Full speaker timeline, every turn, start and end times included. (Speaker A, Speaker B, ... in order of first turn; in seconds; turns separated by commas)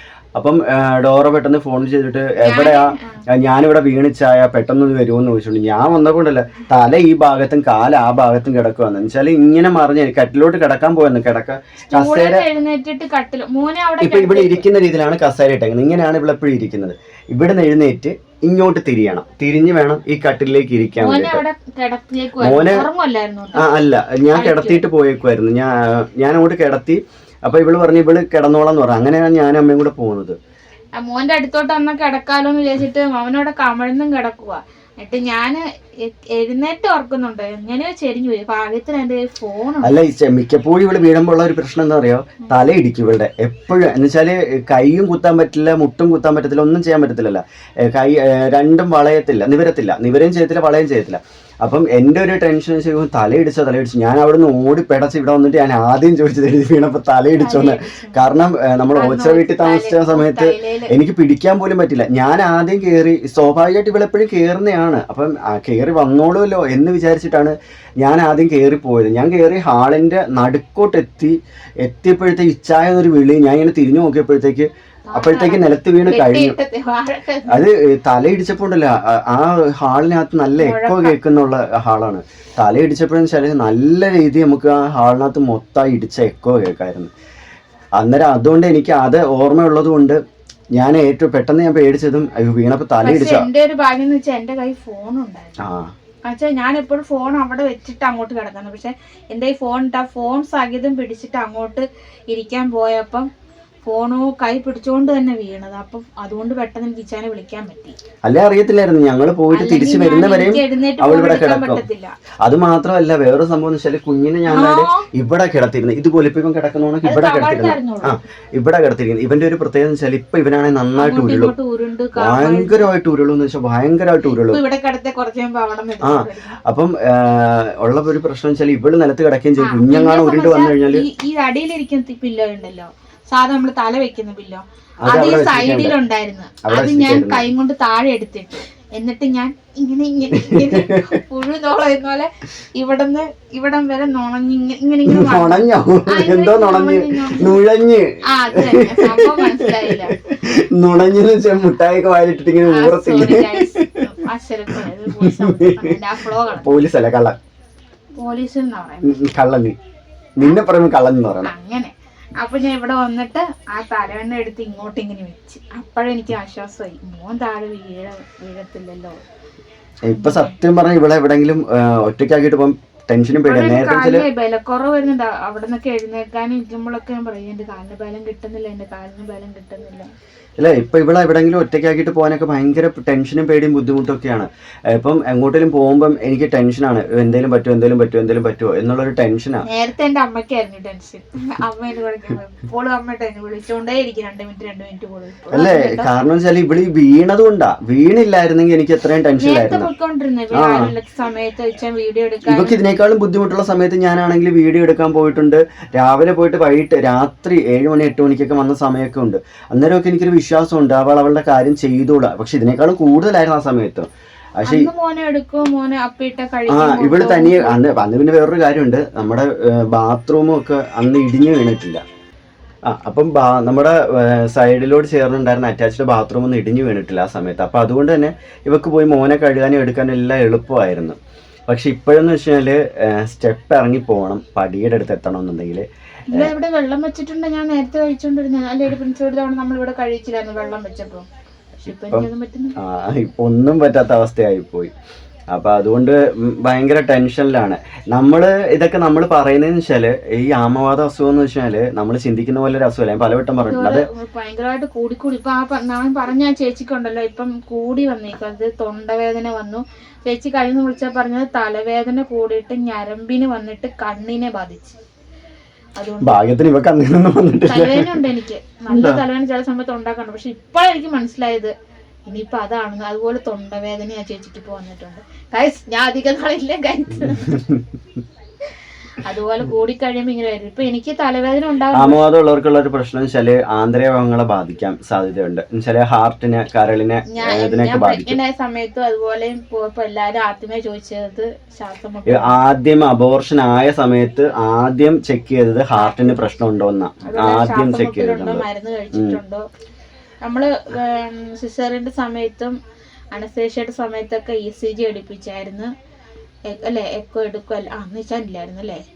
Speaker A: 0.4-12.4, Speaker B: 2.4-3.2, Speaker B: 11.9-14.7, Speaker A: 14.0-21.4, Speaker B: 21.0-23.7, Speaker A: 22.4-22.9, Speaker A: 23.5-30.4, Speaker B: 24.3-24.8, Speaker B: 31.0-39.9, Speaker A: 39.8-76.5, Speaker B: 57.4-58.2, Speaker B: 59.0-60.9, Speaker B: 75.1-77.6, Speaker A: 77.5-87.1, Speaker B: 80.6-81.2, Speaker A: 88.0-90.2, Speaker A: 90.8-93.5, Speaker B: 93.0-95.6, Speaker A: 95.6-95.9, Speaker B: 96.3-103.3, Speaker B: 103.8-108.0, Speaker A: 108.2-111.8, Speaker B: 109.5-112.1, Speaker A: 112.4-121.5, Speaker B: 114.5-115.1, Speaker B: 117.0-118.2, Speaker B: 121.0-122.8, Speaker A: 122.2-124.6, Speaker B: 124.3-126.6, Speaker A: 126.0-131.1, Speaker B: 129.6-147.6, Speaker A: 135.0-135.9, Speaker A: 136.7-137.4, Speaker A: 140.4-141.0, Speaker A: 145.1-154.0, Speaker B: 148.3-150.1, Speaker B: 152.7-156.7, Speaker A: 154.7-156.0, Speaker A: 156.5-157.3, Speaker B: 158.2-159.1, Speaker A: 159.0-159.8, Speaker A: 160.4-161.5, Speaker B: 161.4-169.2, Speaker A: 170.1-174.2, Speaker B: 170.1-170.5, Speaker B: 173.3-180.1, Speaker A: 180.6-189.6, Speaker B: 189.7-196.1, Speaker A: 195.5-199.9, Speaker B: 199.4-202.8, Speaker A: 200.5-200.9, Speaker A: 202.4-214.1, Speaker A: 214.6-214.9, Speaker B: 214.6-217.9, Speaker A: 216.7-222.0, Speaker A: 222.9-231.2, Speaker A: 231.7-236.5, Speaker B: 236.3-241.2, Speaker B: 241.8-242.8, Speaker A: 242.8-244.9, Speaker A: 245.5-254.1, Speaker B: 253.6-265.0, Speaker B: 266.0-266.5, Speaker A: 266.2-268.1, Speaker B: 267.7-271.7, Speaker A: 268.9-269.2, Speaker B: 272.3-277.6, Speaker A: 277.2-277.8, Speaker B: 279.2-282.2, Speaker A: 281.9-288.4, Speaker B: 287.3-292.6, Speaker A: 292.3-299.4, Speaker B: 295.9-296.4, Speaker B: 297.2-299.6, Speaker B: 300.4-302.7, Speaker B: 303.3-305.9, Speaker B: 306.7-309.0